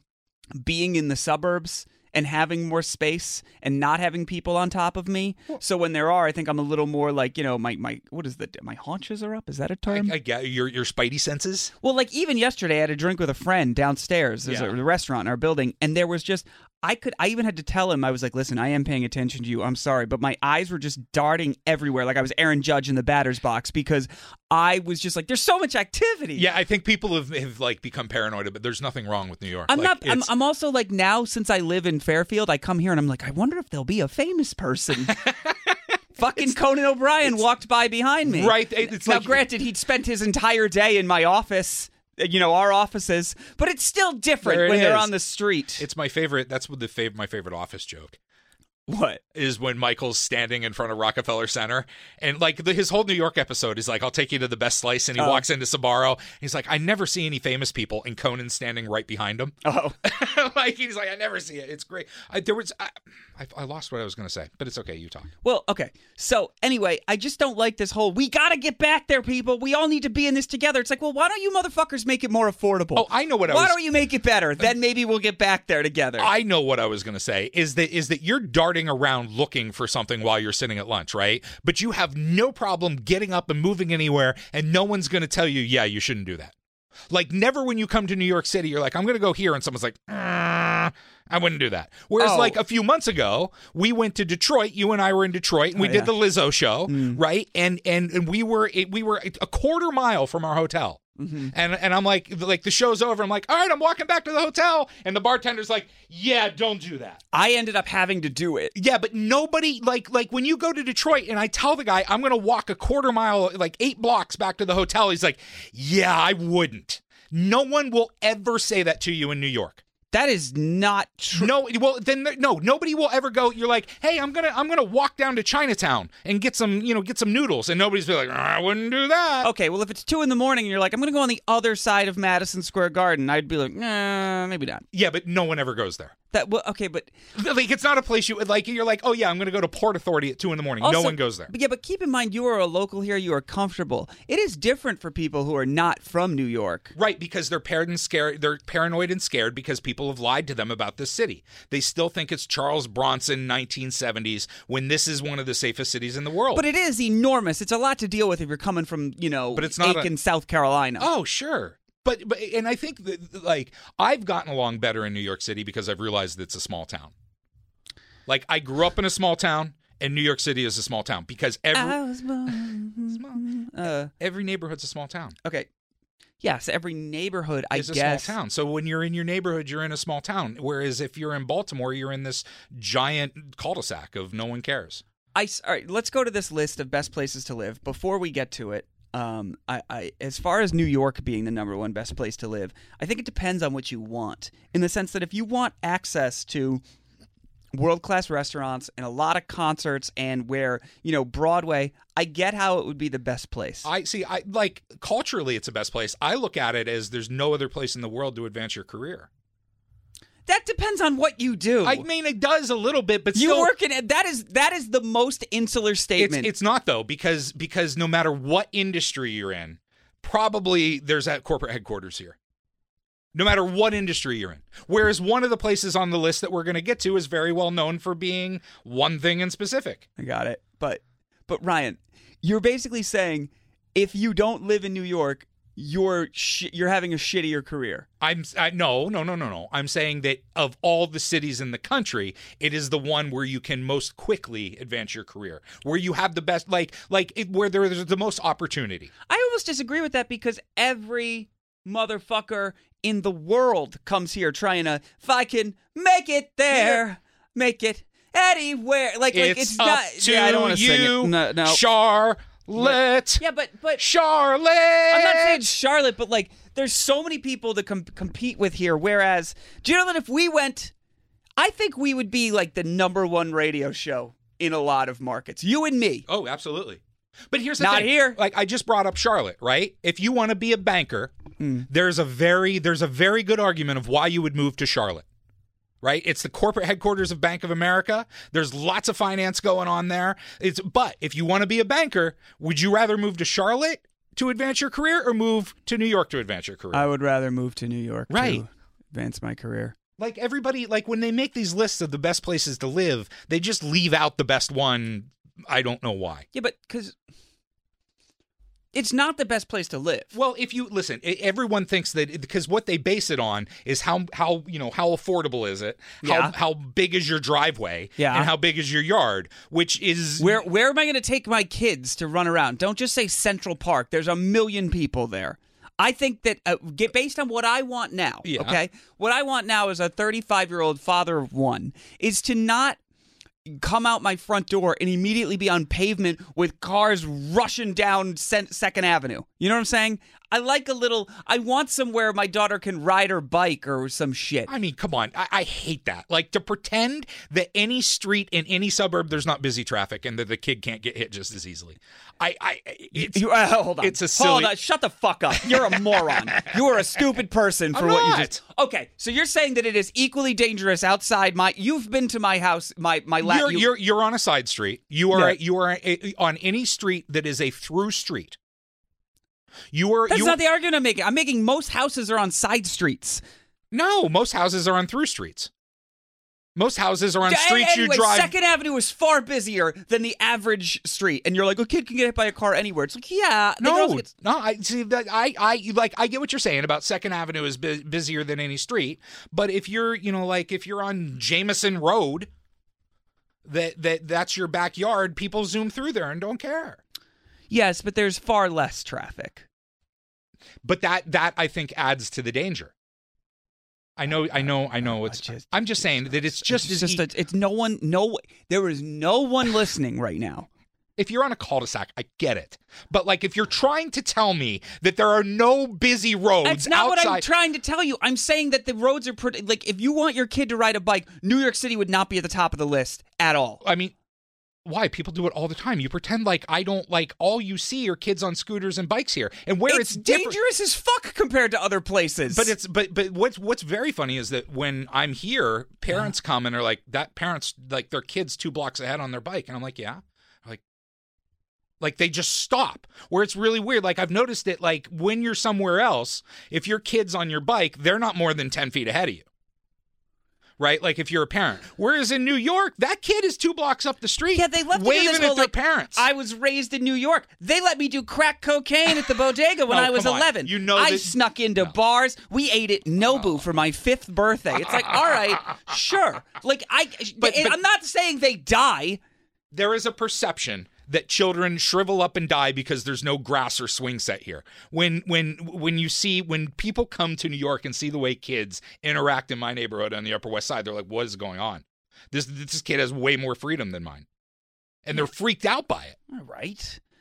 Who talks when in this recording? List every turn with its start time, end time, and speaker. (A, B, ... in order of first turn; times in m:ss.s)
0:00.6-0:10.2 A
0:09.9-0:11.7 B
0:11.8-0:26.5 A
0:14.4-0:14.8 B
0:26.4-0:30.3 B
0:29.7-0:35.2 A
0:35.1-0:35.7 B
0:36.2-0:45.9 A
0:38.2-0:39.4 B
0:44.4-0:45.1 B
0:45.8-0:48.2 B
0:48.9-0:49.2 A
0:49.4-1:05.3 B
0:55.2-0:55.4 A
0:59.6-1:00.0 A
1:05.4-1:16.3 A
1:13.0-1:13.8 B
1:16.2-1:26.6 B
1:27.1-1:41.0 B
1:32.2-1:32.6 A
1:35.8-1:36.1 A
1:36.9-1:37.2 A
1:41.2-1:41.5 A
1:41.5-1:47.2 B
1:47.3-1:48.8 A
1:48.8-1:59.8 B
2:00.1-2:01.5 A
2:01.4-2:09.5 B
2:09.4-2:14.8 A
2:14.9-2:16.1 B
2:16.3-2:17.1 A
2:17.4-2:21.5 B
2:20.8-2:26.9 A
2:27.0-2:36.6 B
2:36.5-2:41.1 A
2:39.5-2:40.1 B
2:41.0-2:47.1 B
2:48.3-2:53.4 B
2:51.7-2:54.1 A
2:54.1-2:55.4 B
2:56.4-2:58.4 A
2:57.7-3:05.0 B
3:05.4-3:16.8 A
3:17.7-3:23.9 A
3:23.8-3:29.3 B
3:30.5-3:32.1 A
3:31.8-3:33.7 B
3:33.3-3:36.5 A
3:36.2-3:42.4 B
3:43.3-3:50.0 B
3:50.2-3:58.1 A
3:58.2-4:09.1 B
4:09.3-4:21.8 A
4:16.7-4:17.0 B
4:19.3-4:23.4 B
4:22.8-4:24.0 A
4:24.0-4:25.6 B
4:25.1-4:30.9 A
4:31.6-4:36.3 A
4:36.3-4:41.4 B
4:37.8-4:38.4 A
4:41.6-4:41.9 A
4:41.9-4:45.2 B
4:46.0-4:57.1 B
4:56.9-5:00.0 A
4:58.3-4:58.6 B
5:00.2-5:06.5 B
5:06.5-5:07.2 A
5:08.9-5:10.3 A
5:10.3-5:20.6 B
5:16.2-5:16.5 A
5:18.2-5:18.5 A
5:20.4-5:33.0 A
5:28.4-5:28.8 B
5:33.7-5:44.7 A
5:44.7-5:53.4 B
5:53.1-6:03.9 A
5:54.0-5:54.7 B
5:55.9-5:56.7 B
5:57.9-5:58.6 B
6:03.4-6:08.6 B
6:05.3-6:05.6 A
6:09.9-6:10.6 B
6:10.3-6:13.4 A
6:13.9-6:15.7 B
6:16.8-6:18.5 B
6:17.4-6:24.3 A
6:23.8-6:32.5 B
6:33.6-6:37.0 B
6:37.7-6:39.7 A
6:40.8-6:42.9 B
6:44.2-6:47.2 B
6:44.3-6:50.7 A
6:51.2-6:57.4 B
6:56.6-7:03.8 A
7:03.8-7:04.1 B
7:04.8-7:10.6 B
7:09.9-7:12.7 A
7:12.5-7:20.8 B
7:22.0-7:29.4 B
7:30.8-7:36.2 B
7:34.5-7:49.2 A
7:39.9-7:41.9 B
7:47.4-7:47.8 B
7:49.7-8:04.3 B
8:05.0-8:06.2 B
8:06.3-8:07.0 A